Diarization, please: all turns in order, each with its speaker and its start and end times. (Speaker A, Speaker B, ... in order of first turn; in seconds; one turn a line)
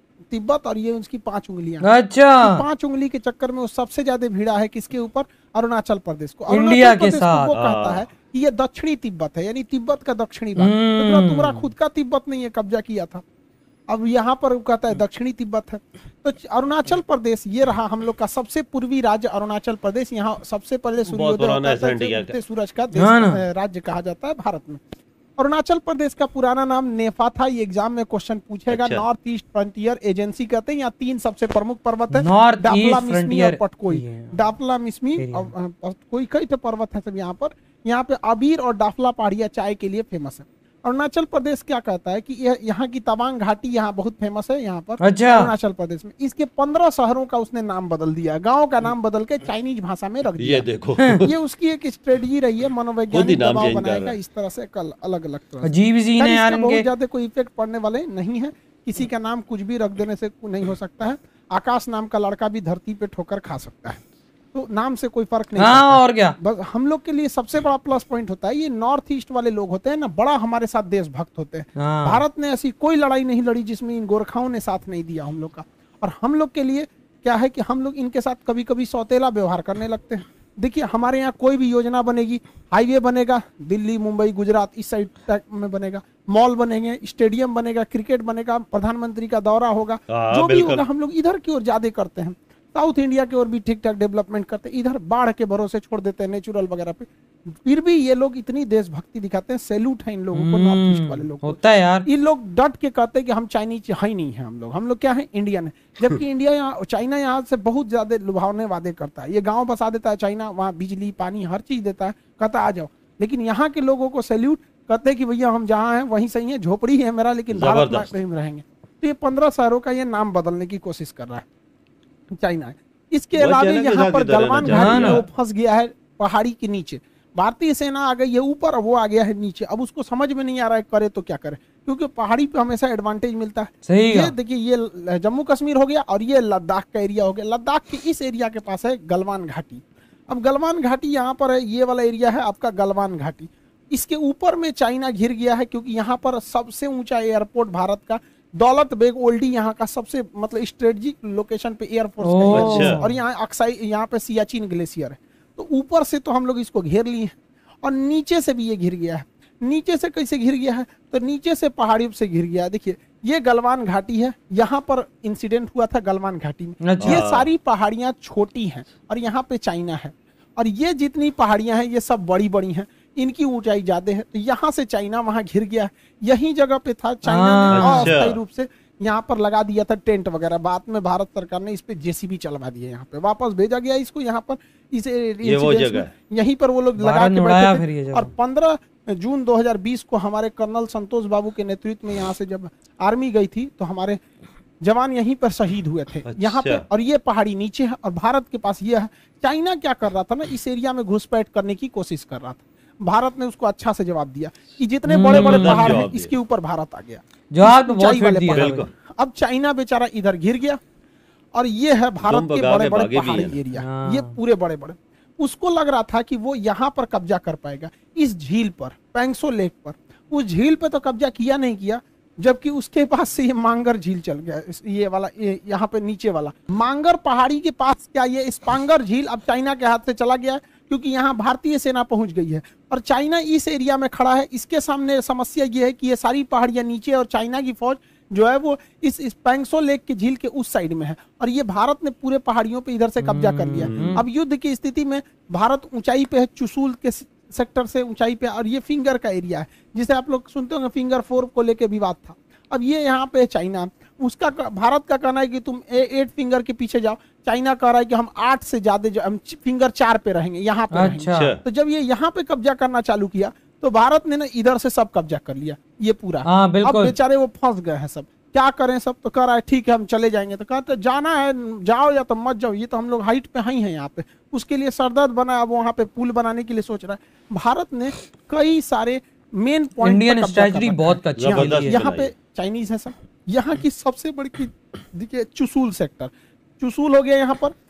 Speaker A: 0.3-1.9
Speaker B: 1.8-2.6
Speaker A: 2.4-13.2
Speaker B: 6.5-7.5
Speaker C: 7.5-8.0
Speaker B: 10.6-11.7
Speaker A: 13.9-24.8
Speaker C: 21.1-22.4
Speaker B: 22.9-23.4
Speaker A: 25.4-50.7
Speaker C: 28.7-29.0
Speaker B: 32.1-34.5
Speaker B: 35.1-35.5
Speaker B: 45.0-45.5
Speaker C: 50.4-51.3
Speaker A: 51.2-64.0
Speaker C: 53.1-54.2
Speaker B: 55.6-56.9
Speaker A: 64.5-121.5
Speaker B: 65.6-66.3
Speaker B: 71.8-72.2
Speaker C: 90.1-90.8
Speaker B: 100.3-102.0
Speaker C: 117.5-118.1
Speaker A: 122.3-194.2
Speaker C: 123.3-125.2
Speaker B: 124.7-125.2
Speaker B: 133.8-134.3
Speaker B: 152.2-153.2
Speaker C: 152.5-153.0
Speaker B: 166.8-167.2
Speaker C: 167.0-167.5
Speaker B: 177.2-178.1
Speaker C: 177.7-178.4
Speaker C: 185.4-186.1
Speaker B: 187.0-188.3
Speaker A: 194.8-210.8
Speaker C: 196.3-196.8
Speaker B: 205.1-206.0
Speaker C: 205.3-206.3
Speaker B: 207.5-208.8
Speaker C: 208.5-208.9
Speaker A: 211.5-287.8
Speaker C: 212.2-213.6
Speaker B: 213.7-214.4
Speaker B: 243.2-244.2
Speaker C: 243.8-244.2
Speaker B: 260.9-261.5
Speaker C: 261.3-261.6
Speaker B: 266.4-267.1
Speaker B: 280.0-282.0
Speaker C: 281.4-282.3